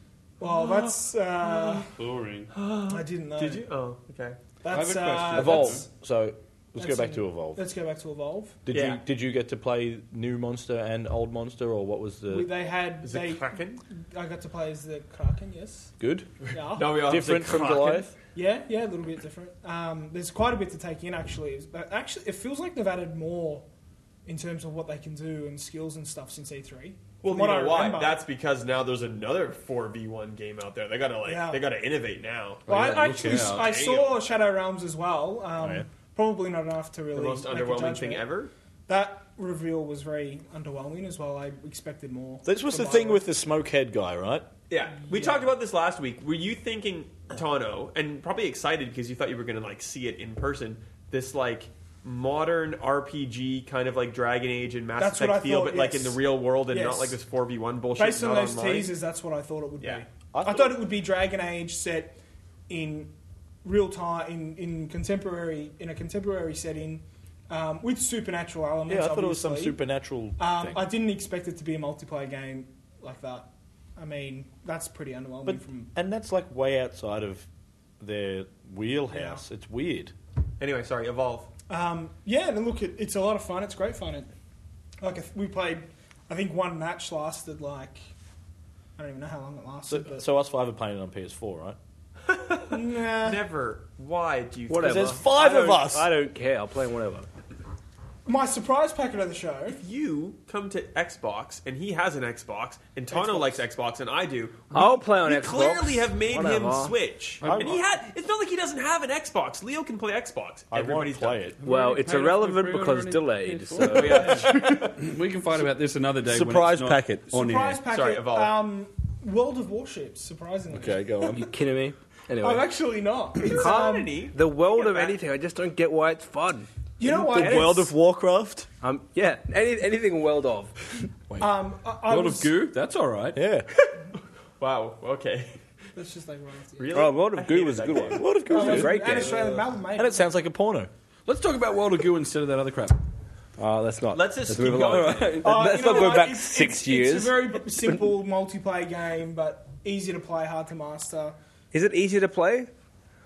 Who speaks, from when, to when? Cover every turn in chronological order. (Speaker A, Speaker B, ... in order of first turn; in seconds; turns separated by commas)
Speaker A: 0.4-1.9, Speaker B: 0.4-0.9, Speaker B: 1.4-1.9, Speaker C: 1.9-2.5, Speaker B: 2.5-4.4, Speaker A: 2.9-3.6, Speaker A: 4.6-5.9, Speaker C: 4.7-5.8, Speaker D: 5.3-7.6, Speaker A: 6.8-8.6, Speaker D: 8.7-12.5, Speaker B: 8.7-9.0, Speaker A: 12.3-15.9, Speaker B: 13.0-13.8, Speaker D: 16.0-16.3, Speaker B: 16.4-18.1, Speaker A: 16.5-17.0, Speaker D: 17.0-18.1, Speaker A: 18.3-23.7, Speaker A: 24.2-28.2, Speaker B: 27.2-34.2, Speaker A: 31.2-31.6, Speaker C: 32.7-33.7, Speaker A: 32.7-38.2, Speaker D: 35.6-35.9, Speaker B: 37.1-38.5, Speaker A: 38.9-43.2, Speaker D: 42.4-44.5, Speaker B: 44.7-58.9, Speaker A: 45.1-45.4, Speaker A: 55.0-57.2, Speaker A: 58.0-62.2, Speaker D: 60.3-60.8, Speaker A: 62.7-69.8, Speaker D: 68.9-70.9, Speaker A: 70.4-75.9, Speaker D: 75.4-77.5, Speaker D: 78.0-80.1, Speaker A: 79.1-79.4, Speaker B: 80.6-81.5, Speaker A: 81.7-84.3, Speaker A: 85.0-88.0, Speaker A: 89.0-90.2, Speaker D: 89.9-91.8, Speaker B: 92.3-95.2, Speaker A: 92.7-93.4, Speaker E: 94.7-97.3, Speaker D: 94.8-96.1, Speaker A: 98.2-99.8, Speaker B: 99.8-111.5, Speaker A: 103.1-103.7, Speaker E: 104.7-106.9, Speaker C: 107.4-107.7, Speaker D: 107.4-107.8, Speaker D: 110.7-111.6, Speaker C: 111.6-117.8, Speaker E: 111.6-114.5, Speaker D: 114.2-115.0, Speaker D: 116.2-117.2, Speaker A: 117.3-121.4, Speaker B: 117.9-118.6, Speaker D: 120.7-121.5, Speaker E: 121.3-122.7, Speaker A: 122.4-124.1, Speaker B: 123.4-125.2, Speaker E: 123.5-126.7, Speaker A: 127.0-127.9, Speaker D: 127.0-128.7, Speaker E: 127.3-127.8, Speaker E: 128.8-130.8, Speaker A: 131.4-132.5, Speaker C: 132.1-133.4, Speaker D: 133.3-133.7, Speaker B: 134.6-135.6, Speaker A: 135.9-137.1, Speaker B: 136.8-138.3, Speaker E: 136.9-139.5, Speaker D: 138.1-140.9, Speaker A: 138.5-140.3, Speaker C: 141.2-143.0, Speaker E: 143.6-148.0, Speaker B: 144.1-145.7, Speaker A: 145.4-151.3, Speaker E: 151.7-152.7